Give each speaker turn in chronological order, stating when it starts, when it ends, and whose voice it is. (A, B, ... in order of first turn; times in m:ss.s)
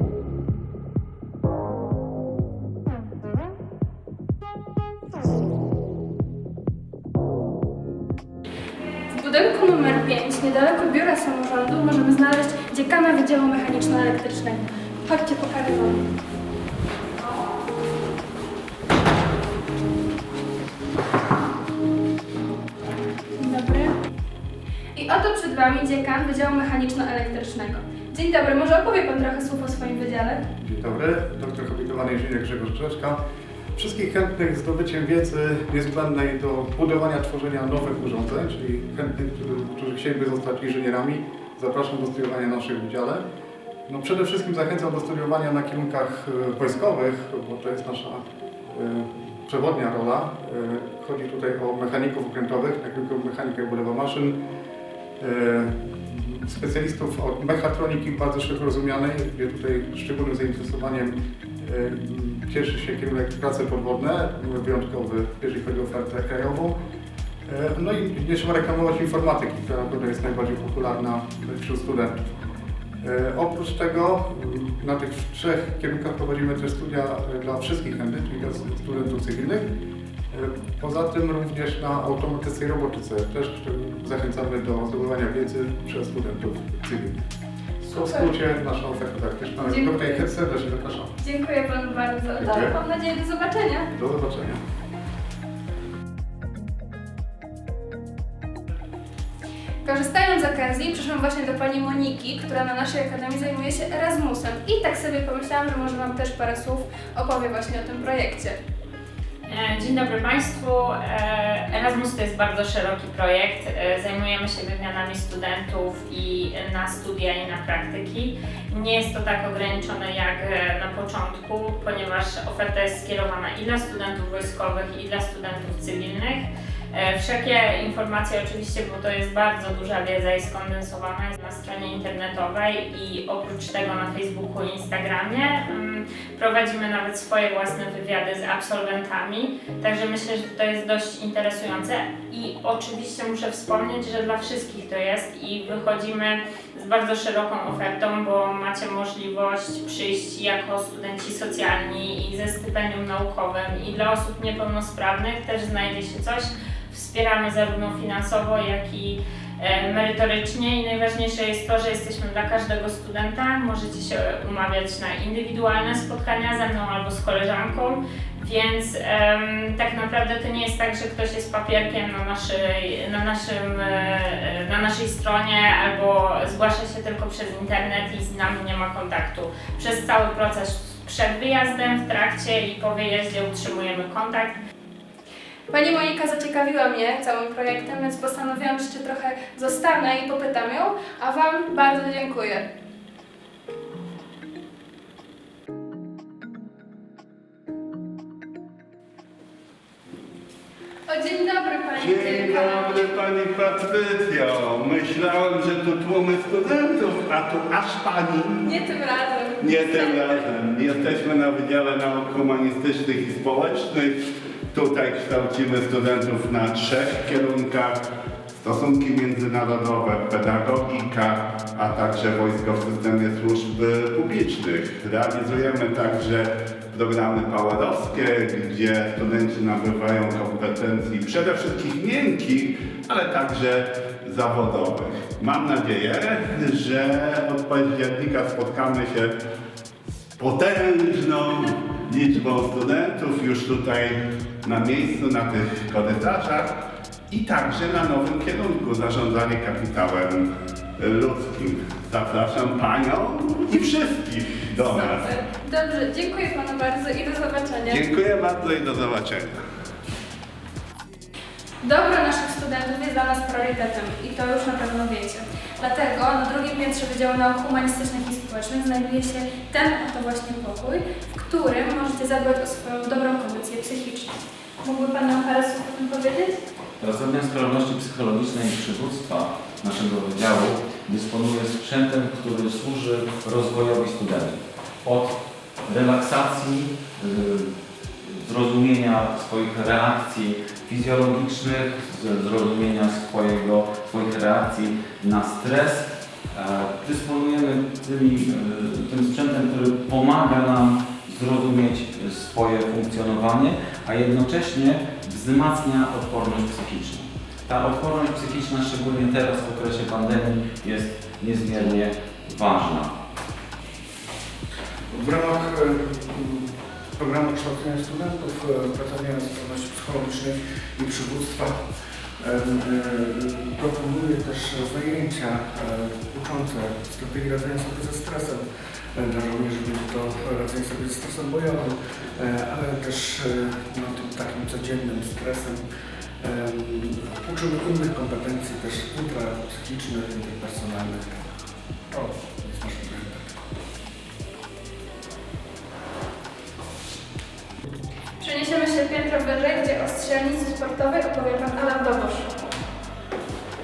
0:09.1-0:16.0 A
0:23.3-0:23.9 A
0:24.9-0:30.4 A
0:30.6-0:33.2 B
0:33.8-0:43.2 B
0:43.9-0:54.4 B
0:55.2-1:06.8 B
1:07.5-1:12.2 B
1:13.0-1:19.7 B
1:20.3-1:27.2 B
1:27.8-1:31.1 B
1:28.0-1:28.3 A
1:29.7-1:30.2 A
1:31.2-1:33.9 A
1:32.4-1:32.8 B
1:34.0-1:34.6 B
1:39.8-1:48.6 A
1:49.5-3:04.6 C
3:05.7-3:12.7 A
3:21.1-3:23.2 A
3:22.0-3:28.7 D
3:28.6-3:30.2 A
3:29.6-3:34.2 D
3:34.7-3:38.0 D
3:38.6-3:59.3 D
4:00.4-4:06.8 D
4:07.3-4:15.3 D
4:14.8-4:18.0 A
4:17.9-4:19.6 D
4:21.8-4:36.6 A
4:37.0-4:47.7 E
4:48.2-5:13.1 E
5:15.1-5:35.9 F
5:36.4-5:41.5 F
5:42.1-5:43.6 F
5:48.4-5:52.5 A